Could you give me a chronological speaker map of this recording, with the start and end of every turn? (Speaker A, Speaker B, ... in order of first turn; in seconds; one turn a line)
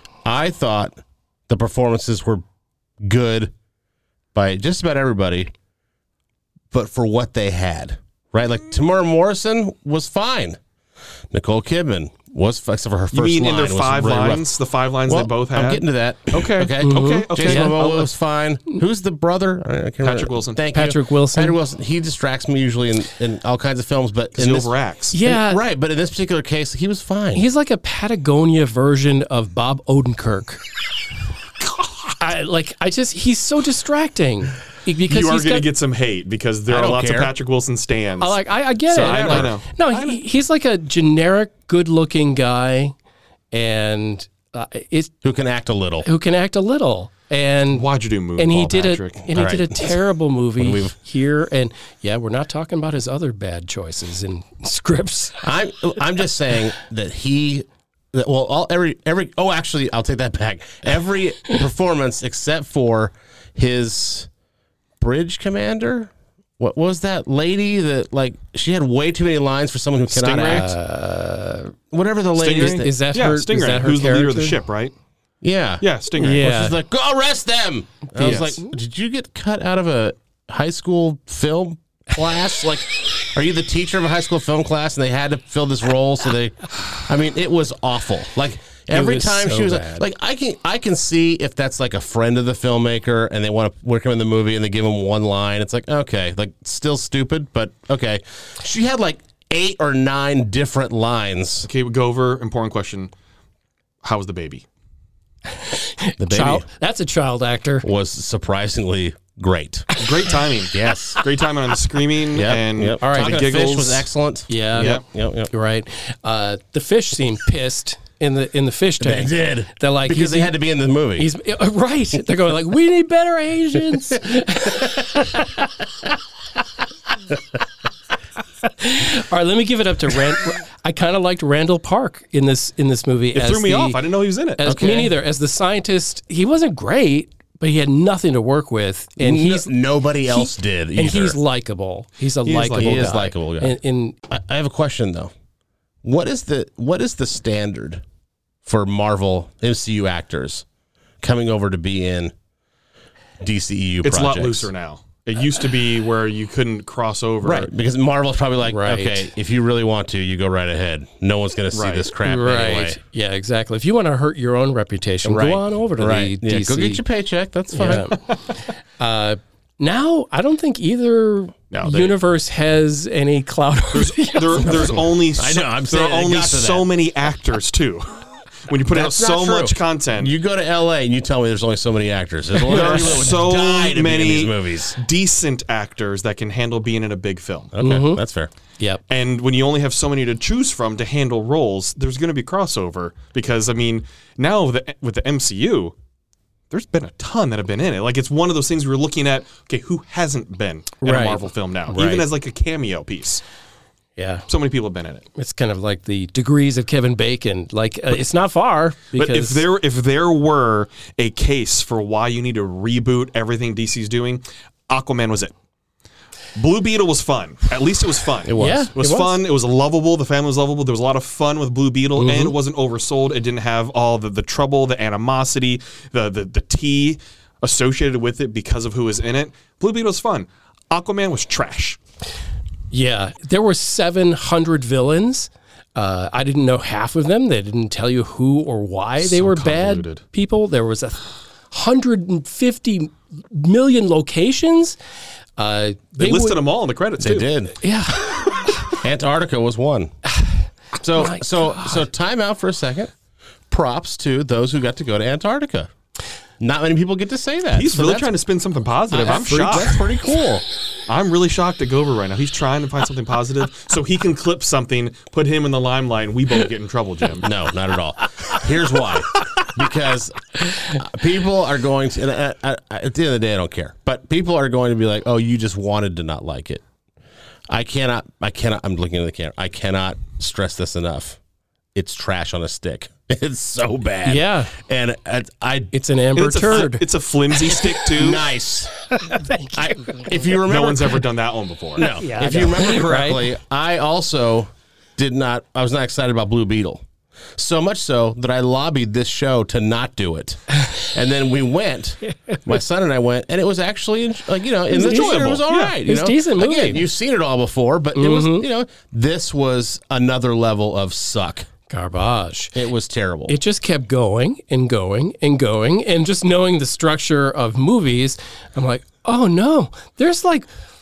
Speaker A: 0.2-2.4
Speaker A: 3.0-3.5
Speaker A: 4.3-5.5
Speaker A: 6.7-10.6
Speaker A: 11.3-14.4
Speaker B: 13.1-17.9
Speaker A: 15.1-27.5
Speaker C: 16.8-18.1
Speaker B: 20.0-20.6
Speaker C: 20.7-21.6
Speaker B: 24.3-25.2
Speaker C: 25.1-25.6
Speaker C: 27.4-30.6
Speaker C: 32.2-35.7
Speaker B: 35.1-38.4
Speaker A: 36.7-37.3
Speaker C: 38.2-43.0
Speaker A: 38.9-39.6
Speaker B: 38.9-40.2
Speaker C: 43.5-45.1
Speaker A: 45.2-46.1
Speaker C: 46.0-47.9
Speaker B: 47.7-49.3
Speaker C: 48.4-55.5
Speaker A: 49.3-50.0
Speaker A: 50.6-51.0
Speaker A: 55.4-64.3
Speaker A: 65.0-70.7
Speaker B: 70.1-70.7
Speaker C: 70.5-71.8
Speaker A: 71.9-72.9
Speaker B: 72.4-74.9
Speaker C: 72.5-74.6
Speaker A: 75.4-101.7
Speaker B: 75.8-76.5
Speaker C: 76.2-76.8
Speaker B: 78.2-78.6
Speaker C: 88.9-90.0
Speaker B: 101.7-103.1
Speaker B: 104.0-104.7
Speaker C: 105.6-107.9
Speaker A: 106.2-106.7
Speaker A: 107.8-109.9
Speaker B: 110.0-114.1
Speaker A: 110.7-111.2
Speaker A: 112.3-115.5
Speaker C: 113.0-113.4
Speaker C: 114.5-115.0
Speaker B: 114.8-115.0
Speaker C: 115.5-120.5
Speaker A: 119.0-121.3
Speaker C: 121.2-125.5
Speaker C: 128.6-134.0
Speaker B: 133.3-134.6
Speaker C: 134.6-139.7
Speaker A: 134.7-135.1
Speaker A: 139.2-141.4
Speaker C: 140.3-144.2
Speaker B: 142.4-143.1
Speaker A: 142.8-143.8
Speaker A: 144.3-145.3
Speaker A: 146.0-148.0
Speaker A: 148.7-150.7
Speaker A: 151.2-152.3
Speaker A: 153.4-154.7
Speaker B: 154.0-157.7
Speaker A: 157.4-163.0
Speaker C: 158.7-159.3
Speaker B: 161.7-162.1
Speaker C: 162.2-167.0
Speaker A: 165.2-168.1
Speaker C: 167.7-168.2
Speaker C: 169.0-174.9
Speaker B: 171.7-172.2
Speaker B: 173.9-180.3
Speaker A: 175.3-176.9
Speaker A: 178.9-185.0
Speaker C: 182.6-183.3
Speaker B: 182.7-187.7
Speaker A: 187.7-188.5
Speaker C: 187.8-188.2
Speaker B: 189.1-195.9
Speaker B: 196.7-203.4
Speaker C: 201.0-202.3
Speaker C: 204.2-204.5
Speaker B: 204.5-205.2
Speaker C: 205.4-209.6
Speaker B: 209.2-215.5
Speaker B: 216.6-232.0
Speaker A: 218.4-218.9
Speaker C: 218.6-219.4
Speaker C: 222.2-222.6
Speaker C: 232.9-245.0
Speaker B: 239.2-240.2
Speaker C: 245.6-246.6
Speaker B: 246.2-247.5
Speaker A: 247.2-247.8
Speaker C: 247.8-248.9
Speaker A: 248.9-250.2
Speaker A: 251.0-253.1
Speaker C: 251.2-252.0
Speaker A: 253.7-255.9
Speaker A: 256.6-258.3
Speaker B: 257.7-260.0
Speaker A: 259.1-260.6
Speaker C: 259.2-260.0
Speaker B: 261.1-267.5
Speaker A: 267.4-276.8
Speaker A: 277.7-281.4
Speaker A: 281.9-285.9
Speaker C: 284.2-284.7
Speaker C: 285.9-287.1
Speaker B: 286.4-288.4
Speaker A: 287.7-288.9
Speaker C: 289.1-290.2
Speaker A: 289.7-291.2
Speaker B: 290.6-292.1
Speaker A: 292.0-297.0
Speaker C: 292.0-293.5
Speaker A: 297.6-311.7
Speaker C: 304.9-307.1
Speaker B: 305.0-305.9
Speaker C: 308.1-308.7
Speaker C: 311.9-312.8
Speaker A: 312.8-313.6
Speaker C: 313.5-320.7